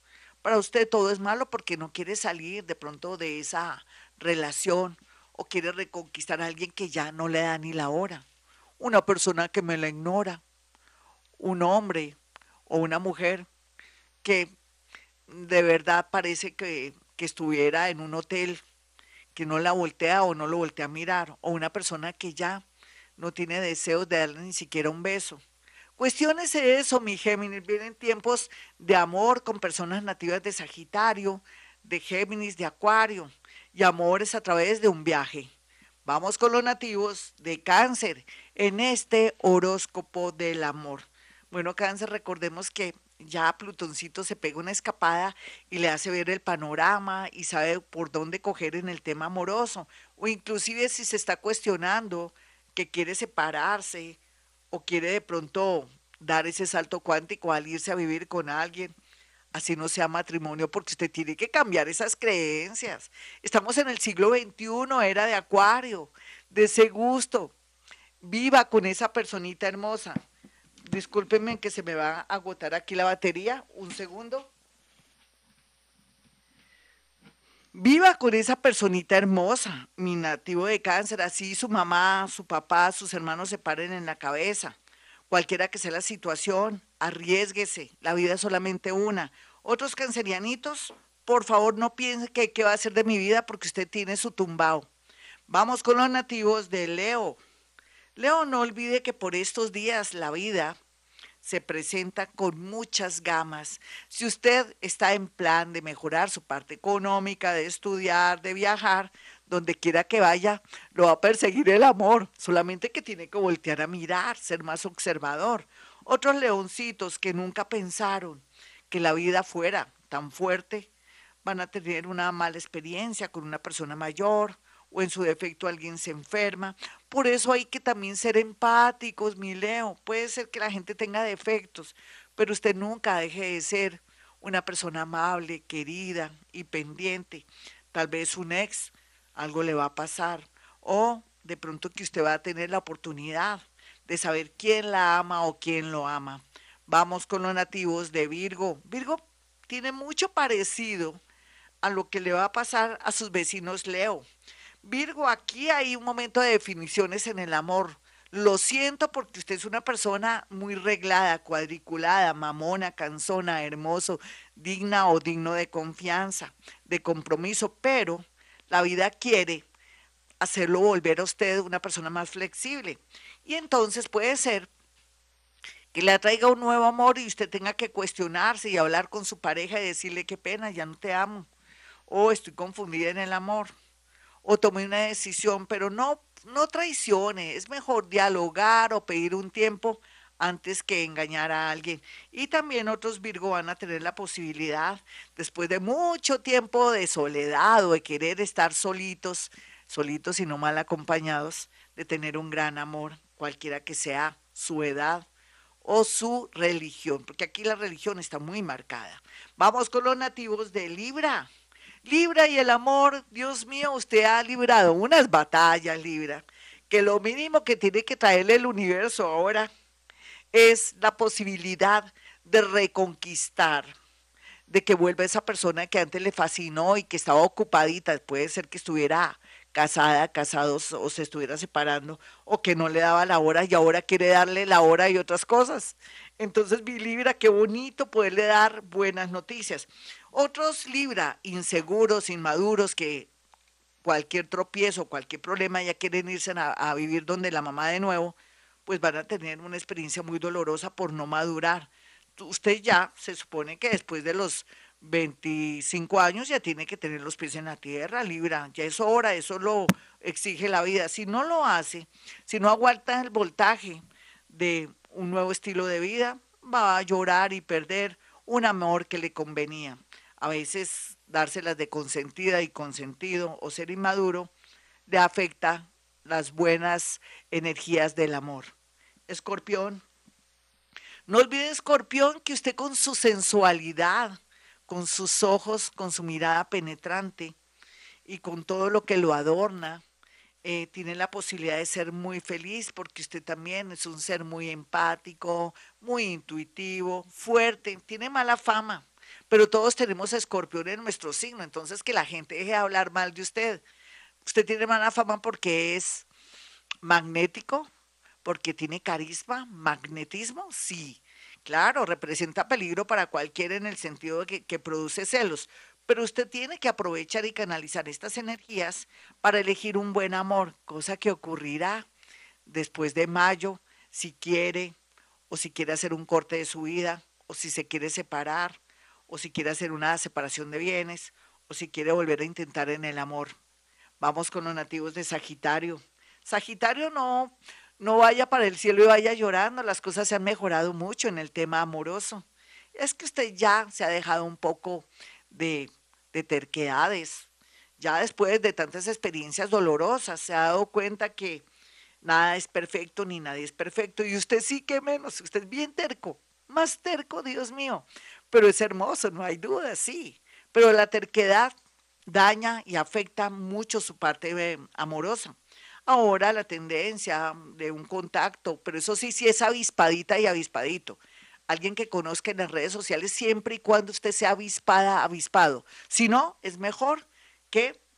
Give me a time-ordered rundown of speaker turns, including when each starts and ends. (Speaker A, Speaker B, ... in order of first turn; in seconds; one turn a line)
Speaker A: 0.4-8.2
Speaker A: 8.8-10.4
Speaker A: 11.4-13.5
Speaker A: 14.2-14.5
Speaker A: 15.3-18.6
Speaker A: 19.3-22.6
Speaker A: 23.2-25.4
Speaker A: 26.0-35.5
Speaker A: 36.0-54.2
Speaker A: 54.7-58.9
Speaker A: 59.5-67.5
Speaker A: 68.2-70.2
Speaker A: 70.9-74.5
Speaker A: 77.7-84.8
Speaker A: 85.3-94.9
Speaker A: 95.5-97.4
Speaker A: 98.2-100.8
Speaker A: 101.4-120.9
Speaker A: 121.4-151.2
Speaker A: 151.8-154.3
Speaker A: 154.8-169.7
Speaker A: 170.4-174.7
Speaker A: 175.9-181.5
Speaker A: 182.1-183.7
Speaker A: 184.4-205.3
Speaker A: 205.8-211.5
Speaker A: 212.0-219.7
Speaker A: 220.5-223.9
Speaker A: 224.7-243.3
Speaker A: 244.0-274.5
Speaker A: 275.1-278.7
Speaker A: 279.3-280.0
Speaker A: 281.3-287.6
Speaker A: 288.2-290.0
Speaker A: 290.6-303.8
Speaker A: 304.4-306.3
Speaker A: 307.0-307.9
Speaker A: 308.4-322.1
Speaker A: 322.7-325.0
Speaker A: 325.5-333.6
Speaker A: 334.2-351.7
Speaker A: 352.2-361.7
Speaker A: 362.3-365.6
Speaker A: 366.1-378.0